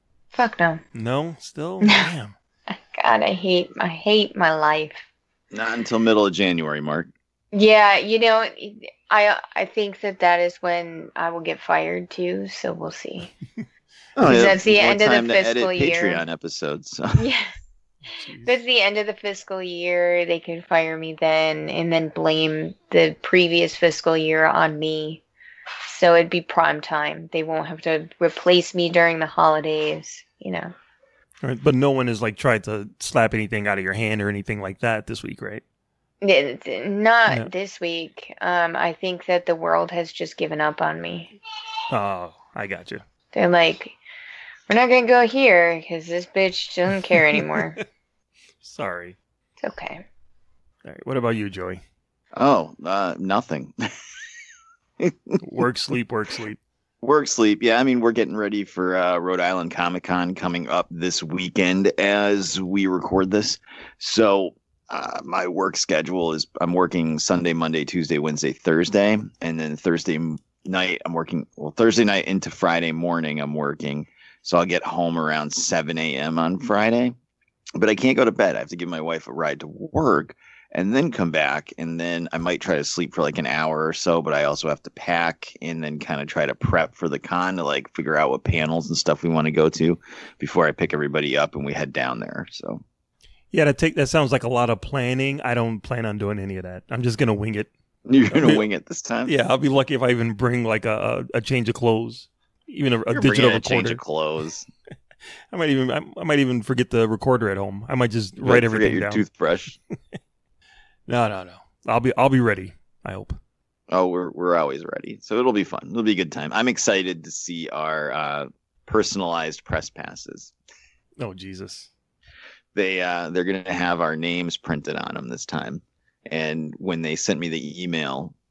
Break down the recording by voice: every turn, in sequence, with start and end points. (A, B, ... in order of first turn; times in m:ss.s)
0:00.3-0:00.8 A
0:00.9-0:02.3 B
0:02.7-0:05.0 A
0:05.5-0:07.1 C
0:07.5-0:13.3 A
0:14.2-0:17.2 C
0:14.2-0:16.2 A
0:17.1-0:17.5 A
0:18.2-0:18.4 B
0:18.4-0:25.2 A
0:25.8-0:30.7 A
0:31.4-0:35.6 B
0:36.2-0:41.4 A
0:41.9-0:43.0 B
0:43.3-0:44.0 A
0:44.7-0:47.8 A
0:48.6-0:49.2 B
0:49.6-0:50.0 A
0:50.8-0:51.8 B
0:52.3-0:53.7 C
0:55.0-0:55.4 C
0:55.4-0:56.6 B
0:57.0-1:17.1 C
1:17.8-1:32.8 C
1:33.5-1:37.7 B
1:38.0-1:39.3 C
1:38.3-1:38.6 B
1:39.2-1:44.0 B
1:43.1-1:44.7 C
1:45.5-1:49.2 B
1:48.4-1:49.8 C
1:51.1-1:53.4 B
1:53.9-2:00.5 C
2:01.2-2:01.9 B
2:02.7-2:08.3 C